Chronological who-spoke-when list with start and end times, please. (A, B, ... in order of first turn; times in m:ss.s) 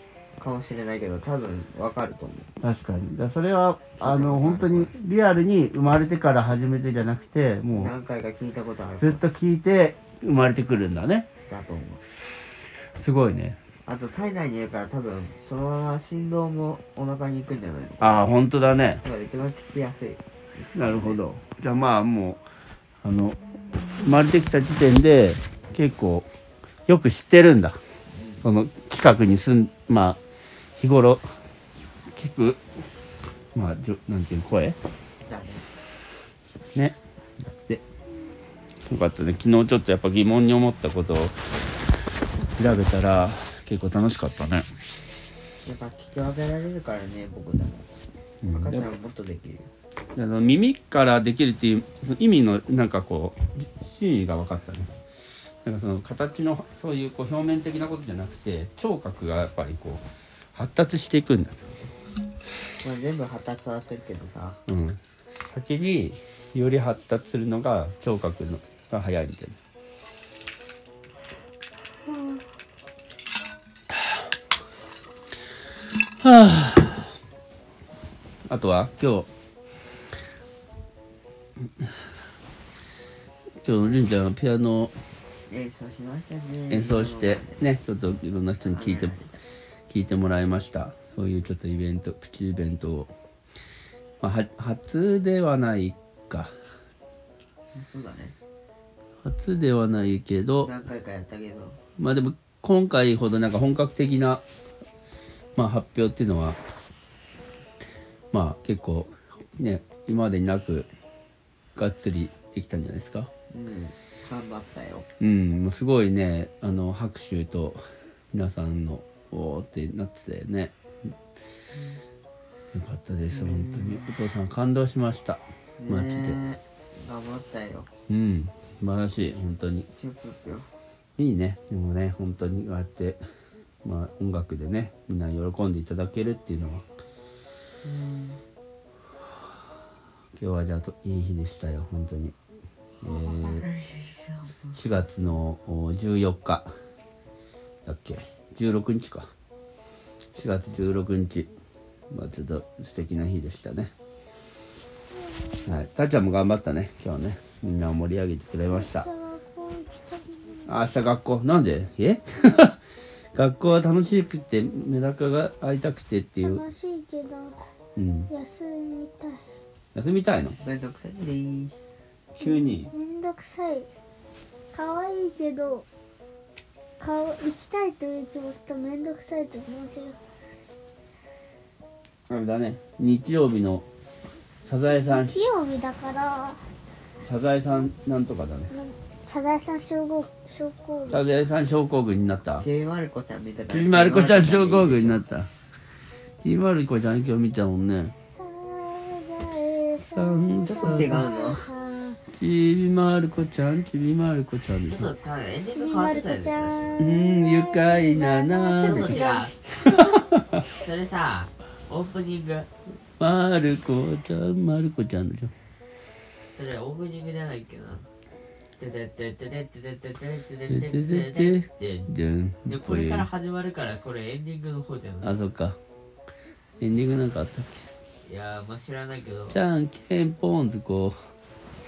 0:00.4-0:02.5 A
0:02.6-0:07.9 B
0:04.0-0:04.9 A
0:07.7-0:09.2 A
0:09.0-0:11.3 B
0:11.5-0:12.0 A
0:13.0-0:13.6 B
0:13.8-0:18.2 A
0:18.0-0:19.0 B
0:19.0-0:21.2 A
0:20.7-0:22.4 B
0:23.0-0:23.4 B
0:24.0-0:26.2 B
0:26.9-0:27.8 B
0:28.1-0:28.4 A
0:28.4-0:30.2 B
0:30.8-0:31.2 B
0:32.1-0:32.6 B
0:33.5-0:34.8 B
0:35.2-0:35.6 A
0:37.5-0:37.8 B
0:38.9-0:41.4 B
0:42.6-0:44.6 B
0:45.6-0:47.9 A
0:48.4-0:48.9 B
0:48.5-0:49.7 A
0:50.1-0:54.9 B
0:55.6-1:01.7 B
1:02.8-1:04.6 A
1:04.7-1:09.6 B
1:12.1-1:12.4 C
1:16.2-1:17.1 B
1:18.5-1:19.3 B
1:23.6-1:24.9 B
1:25.5-1:27.6 A
1:26.7-1:29.2 B
1:28.6-1:29.3 A
1:29.9-1:33.1 B
1:34.2-1:36.6 B
1:37.7-1:38.3 A
1:39.2-1:40.7 B
1:40.6-1:41.8 A
1:42.0-1:44.4 B
1:45.6-1:46.6 B
1:48.3-1:50.9 B
1:51.7-1:53.3 B
1:53.5-1:55.0 A
1:55.2-2:00.7 B
2:01.8-2:02.0 A
2:02.7-2:06.4 B
2:03.3-2:04.1 A
2:05.8-2:07.9 A
2:08.1-2:09.9 B
2:10.0-2:10.7 A
2:11.2-2:13.2 B
2:13.8-2:16.8 B
2:17.8-2:18.4 A
2:20.4-2:22.3 B
2:23.0-2:23.6 B
2:23.0-2:24.8 A
2:24.8-2:26.7 B
2:27.8-2:29.3 B
2:30.3-2:31.5 B
2:32.1-2:33.9 B
2:35.1-2:35.8 C
2:35.6-2:39.1 B
2:38.7-2:40.7 C
2:40.7-2:42.8 B
2:43.3-2:46.6 B
2:46.4-2:47.6 C
2:48.0-2:48.3 B
2:48.3-2:49.4 C
2:49.9-2:50.6 B
2:50.6-2:51.7 A
2:52.4-2:52.9 B
2:52.4-2:53.9 C
2:54.7-2:55.8 C
2:57.0-3:00.2 C
3:02.3-3:03.8 B
3:04.6-3:05.4 B
3:05.0-3:06.6 C
3:07.2-3:08.7 B
3:08.7-3:11.2 C
3:11.1-3:12.6 B
3:12.6-3:15.2 A
3:13.7-3:15.5 B
3:16.4-3:18.1 B
3:18.4-3:22.2 C
3:20.1-3:21.3 B
3:20.6-3:21.7 A
3:22.3-3:25.1 B
3:24.8-3:27.0 A
3:25.7-3:29.5 C
3:27.0-3:29.2 B
3:28.8-3:29.7 A
3:29.8-3:30.5 B
3:30.5-3:32.7 A
3:33.2-3:35.5 B
3:36.5-3:38.1 A
3:38.8-3:42.1 A
3:40.7-3:43.3 B
3:42.6-3:45.4 A
3:45.2-3:45.8 B
3:46.8-3:47.8 B
3:48.2-3:49.6 A
3:49.5-3:51.2 B